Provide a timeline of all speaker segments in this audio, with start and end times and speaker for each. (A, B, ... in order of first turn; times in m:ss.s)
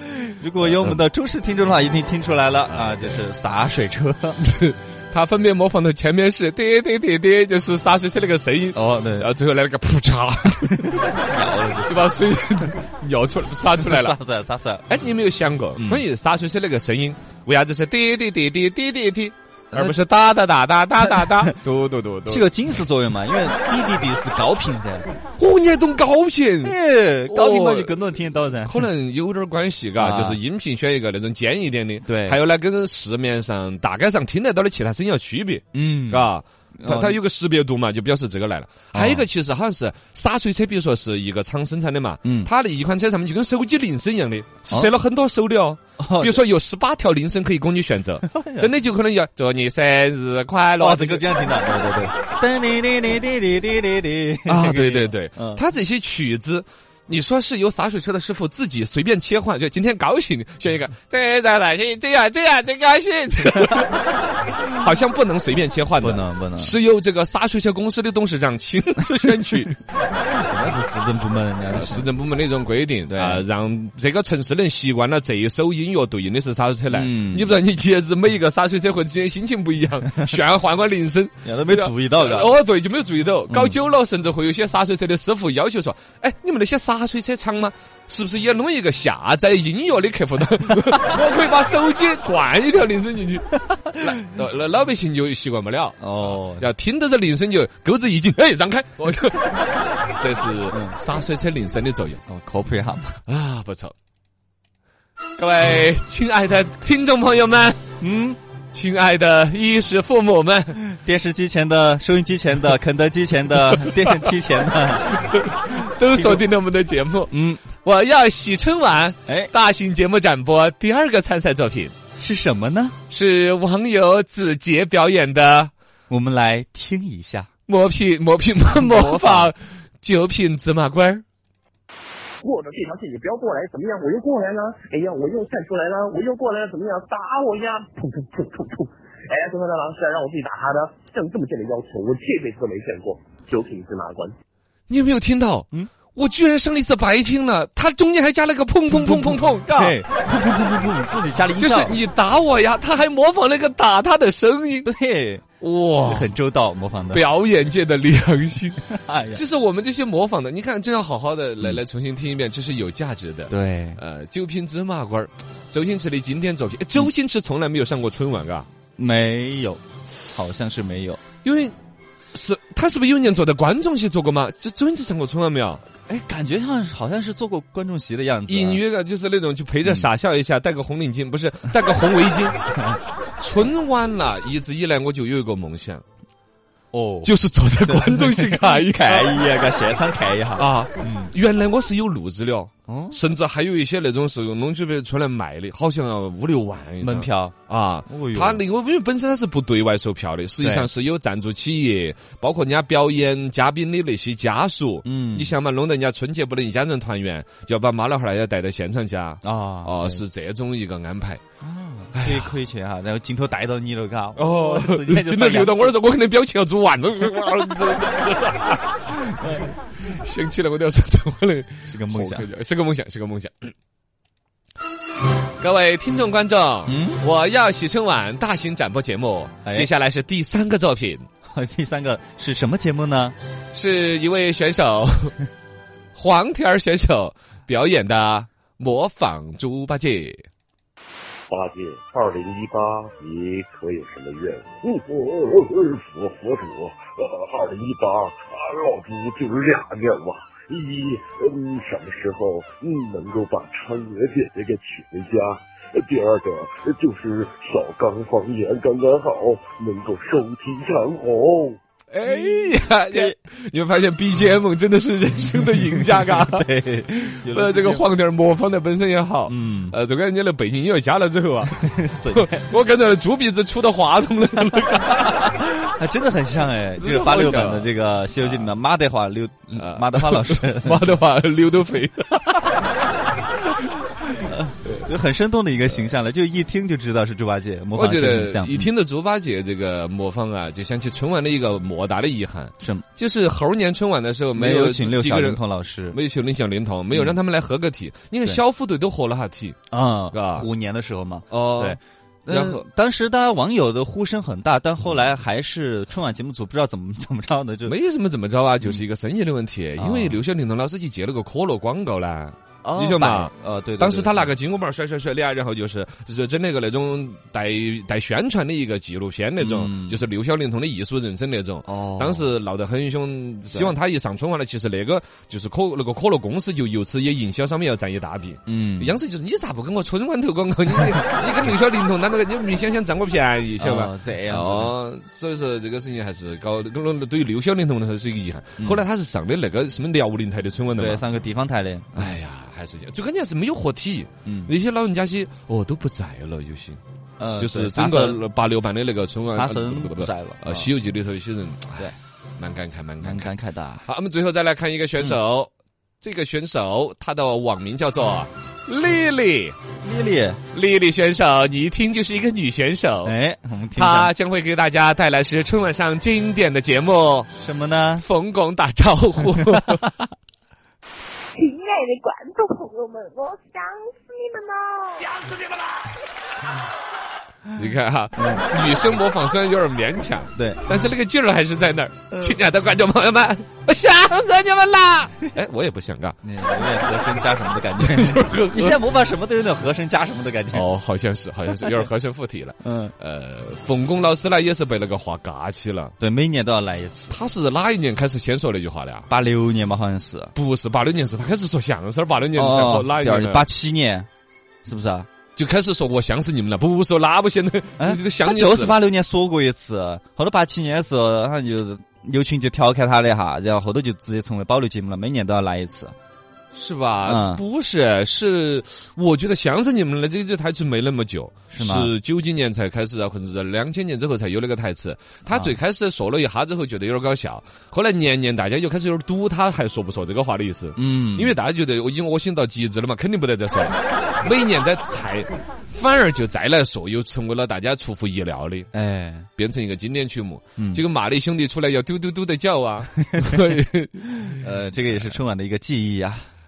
0:00.2-0:04.4 A
0:00.6-0:01.0 B
0:04.4-0:10.9 B
0:08.7-0:09.3 A
0:10.7-0:12.0 A
0:11.8-0:14.2 B
0:13.8-0:14.8 A
0:14.9-0:22.5 B
0:15.8-0:16.0 A
0:19.7-0:20.0 A
0:21.0-0:21.5 A
0:22.2-0:25.1 A
0:25.4-0:26.8 B
0:26.6-0:28.8 A
0:27.3-0:28.0 B
0:28.6-0:51.2 B
0:30.0-0:30.4 A
0:32.0-0:32.4 A
0:35.7-0:37.2 A
0:38.9-0:39.2 A
0:42.2-0:42.5 A
0:46.0-0:46.4 A
0:48.2-0:48.7 A
0:50.8-0:55.6 A
0:54.5-1:09.7 B
1:06.0-1:06.8 A
1:10.2-1:12.1 A
1:11.7-1:42.2 B
1:13.1-1:13.4 A
1:16.9-1:17.6 A
1:21.4-1:22.5 A
1:36.0-1:36.7 A
1:40.7-1:41.0 A
1:42.3-1:43.2 A
1:43.3-1:43.9 B
1:45.4-1:47.8 B
1:48.0-1:48.4 A
1:48.7-1:50.8 B
1:50.9-1:55.1 A
1:53.8-1:54.3 B
1:55.0-2:01.9 B
1:56.1-1:56.4 A
1:57.3-1:57.7 A
2:02.2-2:03.0 A
2:03.1-2:05.7 B
2:06.1-2:07.5 A
2:07.7-2:11.2 B
2:08.8-2:09.5 A
2:12.4-2:24.3 C
2:24.9-2:30.0 B
2:28.9-2:32.0 A
2:31.6-2:34.9 B
2:34.8-2:35.4 A
2:35.6-2:36.3 B
2:36.0-2:37.2 A
2:37.1-2:48.7 B
2:38.9-2:39.4 A
2:43.5-2:44.0 A
2:49.0-2:51.2 A
2:51.4-2:51.7 B
2:52.3-2:55.8 B
2:56.1-2:58.8 A
2:58.5-3:02.6 B
3:03.4-3:06.0 B
3:06.9-3:11.3 A
3:07.2-3:09.4 B
3:10.6-3:31.4 B
3:12.9-3:13.2 A
3:17.0-3:17.6 A
3:18.1-3:18.6 A
3:20.6-3:20.9 A
3:25.0-3:25.6 A
3:29.4-3:30.2 A
3:31.6-3:35.9 A
3:32.1-3:32.5 B
3:34.4-3:43.7 B
3:39.4-3:39.7 A
3:41.8-3:42.5 A
3:45.6-3:51.3 B
3:46.9-3:47.2 A
3:51.5-3:53.3 A
3:53.7-3:55.4 B
3:56.1-4:00.4 B
4:01.5-4:21.8 D
4:22.1-4:35.5 B
4:22.2-4:23.4 A
4:25.6-4:28.0 A
4:29.5-4:30.0 A
4:31.8-4:32.7 A
4:35.3-4:41.2 A
4:37.0-4:38.7 B
4:39.7-4:43.2 B
4:44.3-4:48.9 A
4:47.9-4:59.8 B
4:52.8-4:53.0 A
4:54.5-4:56.2 A
4:59.9-5:07.9 A
5:00.3-5:00.7 B
5:01.5-5:02.8 B
5:07.8-5:41.2 B
5:10.0-5:10.4 A
5:12.8-5:14.5 A
5:19.6-5:20.2 A
5:21.9-5:22.5 A
5:28.7-5:29.2 A
5:33.8-5:34.9 A
5:41.0-5:42.4 A
5:42.1-5:47.0 B
5:44.4-5:44.7 A
5:47.4-5:48.4 A
5:47.6-5:53.5 B
5:49.5-5:50.9 A
5:53.2-5:54.0 A
5:54.0-5:59.8 B
6:00.0-6:00.6 A
6:00.7-6:03.3 B
6:03.2-6:04.3 A
6:03.9-6:07.5 B
6:07.6-6:08.2 A
6:08.2-6:10.0 B
6:11.5-6:15.4 E
6:17.7-6:26.4 B
6:18.4-6:18.6 A
6:20.5-6:20.8 A
6:26.4-6:30.8 A
6:28.0-6:29.0 B
6:30.7-6:36.1 B
6:31.8-6:32.1 A
6:32.8-6:33.1 A
6:36.2-6:37.3 A
6:37.3-6:39.3 B
6:39.3-6:40.5 A
6:40.5-6:43.7 B
6:42.5-6:44.3 A
6:44.8-6:45.3 A
6:45.5-6:49.0 B
6:48.0-6:56.1 A
6:56.7-7:18.9 B
6:57.2-6:57.6 A
7:01.7-7:02.1 A
7:05.5-7:05.7 A
7:11.0-7:11.6 A
7:18.9-7:19.5 A
7:19.6-7:25.4 B
7:20.8-7:21.0 A
7:24.5-7:26.5 A